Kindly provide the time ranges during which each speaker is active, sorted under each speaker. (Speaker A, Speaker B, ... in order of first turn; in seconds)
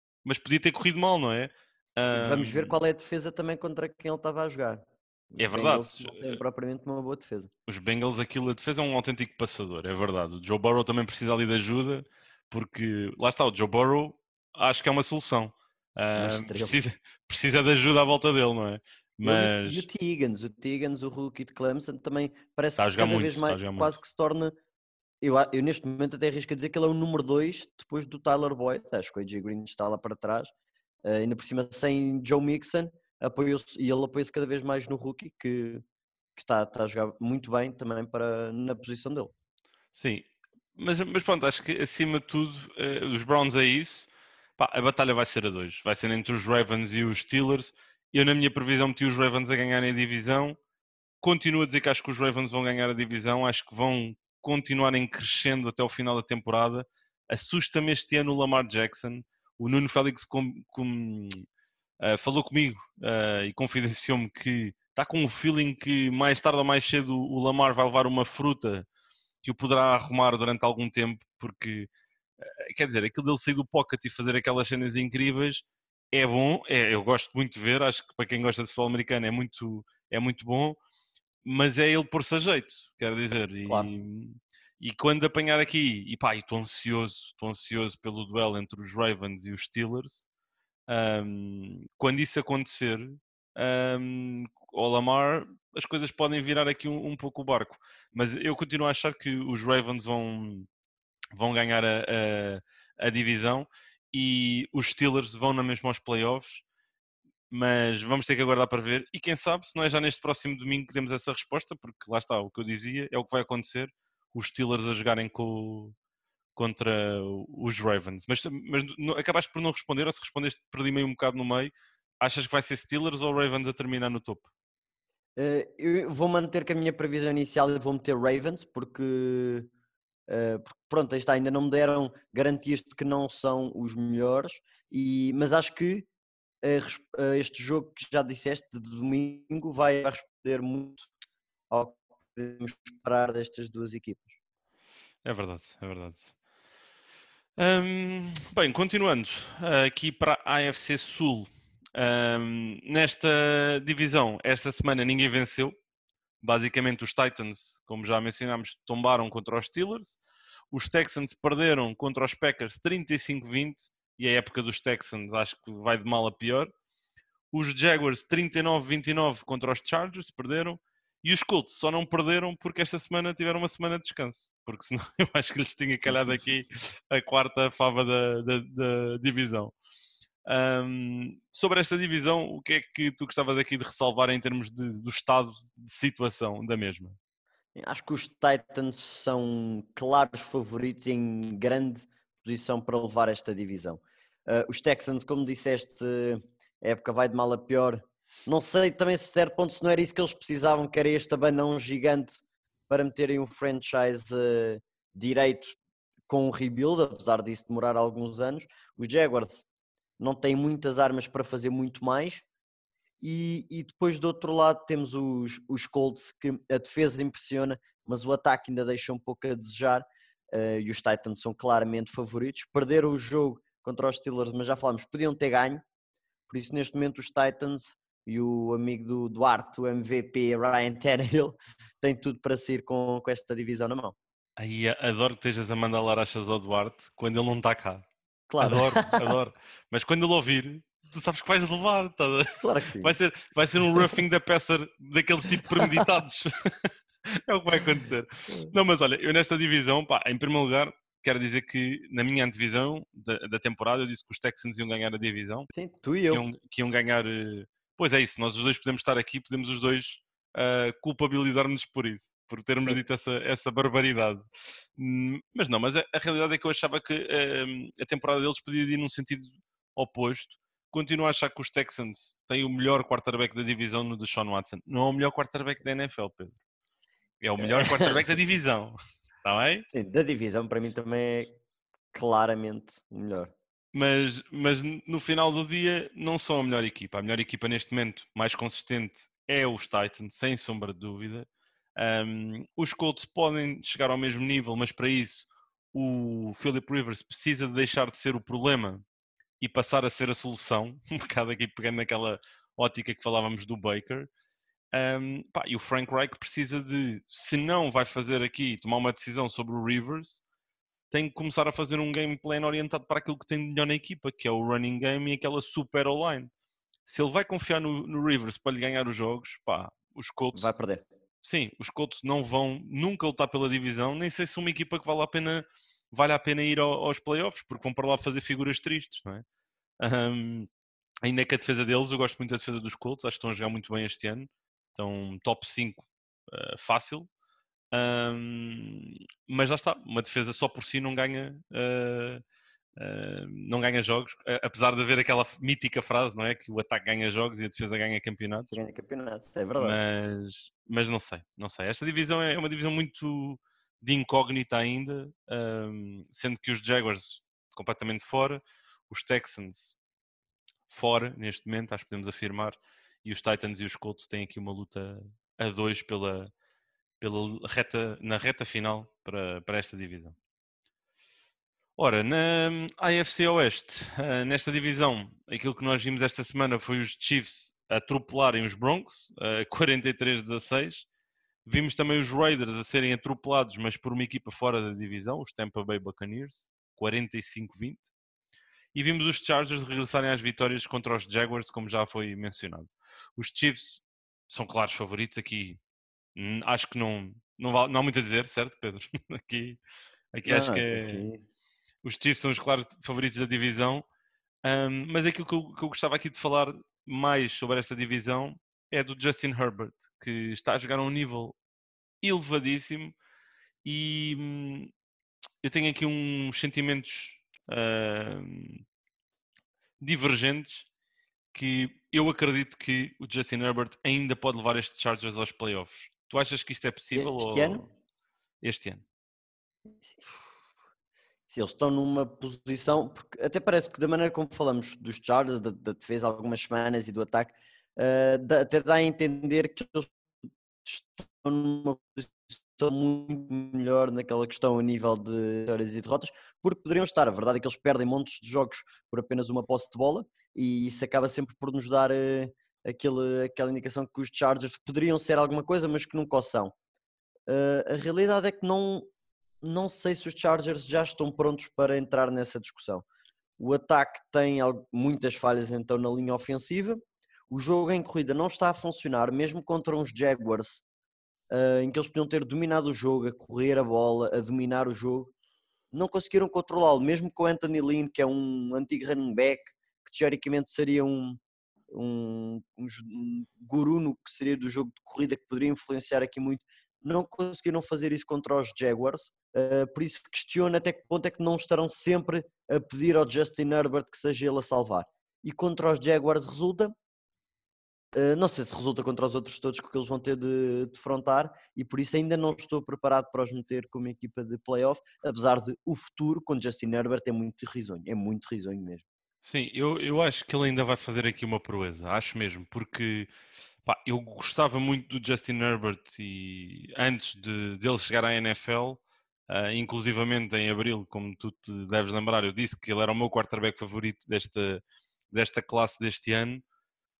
Speaker A: 0.2-2.8, 5.4-6.4, 7.7-19.9, 22.8-24.0, 39.9-50.6, 51.2-61.5, 62.0-68.9, 69.4-71.9, 72.4-80.8, 81.4-90.3, 90.9-100.7, 101.3-106.6, 107.5-116.0, 116.6-124.5, 145.2-146.3, 147.6-155.8, 156.4-160.2, 160.7-166.7, 167.5-179.7, 180.5-187.2, 234.6-238.1, 238.6-246.5, 247.3-255.7, 256.3-276.6, 277.4-279.9, 283.9-299.0, 299.6-304.3, 304.9-310.4, 311.1-316.5, 317.1-320.7, 321.4-329.4, 330.0-330.7, 331.2-337.3, 337.9-342.4, 343.0-348.7, 349.8-360.0, 360.9-366.5, 367.2-370.4, 372.0-381.1, 381.7-388.1, 388.9-395.8, 396.4-399.8, 400.3-401.2, 402.0-404.1, 404.6-411.6, 412.2-413.2, 413.8-414.9, 415.6-418.8, 420.0-420.9, 421.5-427.9, 428.6-429.0, 509.4-513.3, 513.8-526.6
Speaker B: 2.1-7.5, 16.2-16.8, 19.2-24.6, 25.2-30.5, 31.1-35.8, 36.4-39.3, 125.4-129.7, 130.3-136.1, 136.6-141.1, 141.7-144.4, 176.1-176.3, 187.8-205.8, 206.3-209.7, 210.2-212.4, 213.2-225.8, 226.5-234.2, 238.5-239.3, 242.5-243.2, 255.7-256.4, 277.6-278.2, 279.9-281.6, 282.1-283.5, 320.5-321.1, 348.7-350.0, 400.4-401.4, 427.1-427.8, 430.0-430.3, 431.5-440.1, 440.8-456.7, 457.5-459.1, 459.6-463.1, 463.6-470.8, 471.5-475.3, 475.9-481.4, 481.9-497.0, 498.1-509.0